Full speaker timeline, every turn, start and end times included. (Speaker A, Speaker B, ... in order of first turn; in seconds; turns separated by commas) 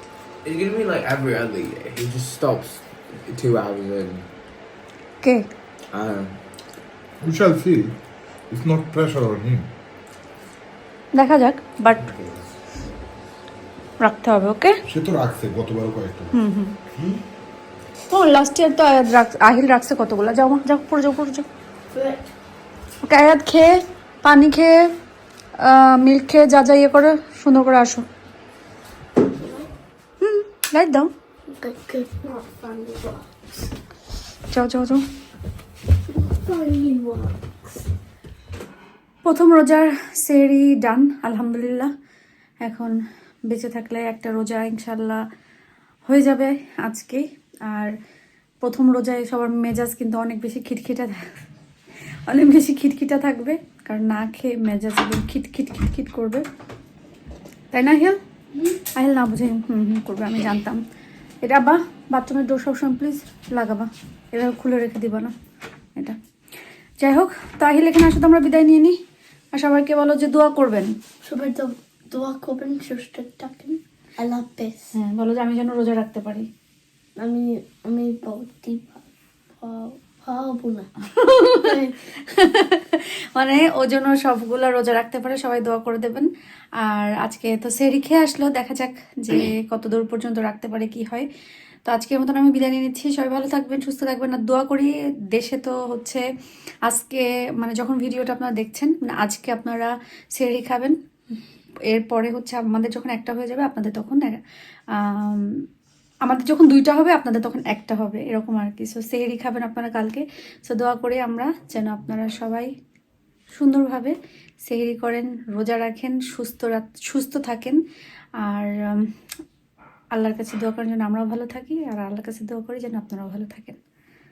Speaker A: 0.4-4.3, Speaker A: 5.9-6.4, Speaker B: 7.2-7.9, Speaker B: 8.5-9.7, Speaker C: 11.2-12.1, Speaker A: 12.1-12.5, Speaker C: 14.0-14.8, Speaker B: 14.9-16.3, Speaker C: 16.3-16.8, Speaker C: 18.1-21.5, Speaker D: 21.9-22.3, Speaker C: 23.0-24.9, Speaker C: 25.6-28.1, Speaker D: 29.2-29.7, Speaker C: 30.2-31.1, Speaker D: 31.5-33.3, Speaker C: 34.5-35.0, Speaker D: 36.1-37.6, Speaker C: 39.2-41.9, Speaker C: 42.6-42.9, Speaker C: 43.5-45.2, Speaker C: 46.1-47.9, Speaker C: 48.6-51.3, Speaker C: 52.3-56.5, Speaker C: 57.7-58.2, Speaker C: 59.0-60.8, Speaker C: 61.4-65.3, Speaker C: 67.0-69.0, Speaker C: 69.5-70.9, Speaker D: 71.2-74.9, Speaker C: 74.9-76.5, Speaker D: 77.2-79.1, Speaker D: 79.6-80.9, Speaker C: 81.0-86.3, Speaker D: 81.6-82.0, Speaker C: 86.8-91.3, Speaker C: 91.9-96.3, Speaker C: 96.9-101.0, Speaker C: 101.9-104.4, Speaker C: 105.0-105.5, Speaker C: 106.3-112.7, Speaker C: 113.5-117.8, Speaker C: 118.4-119.1, Speaker C: 120.2-123.8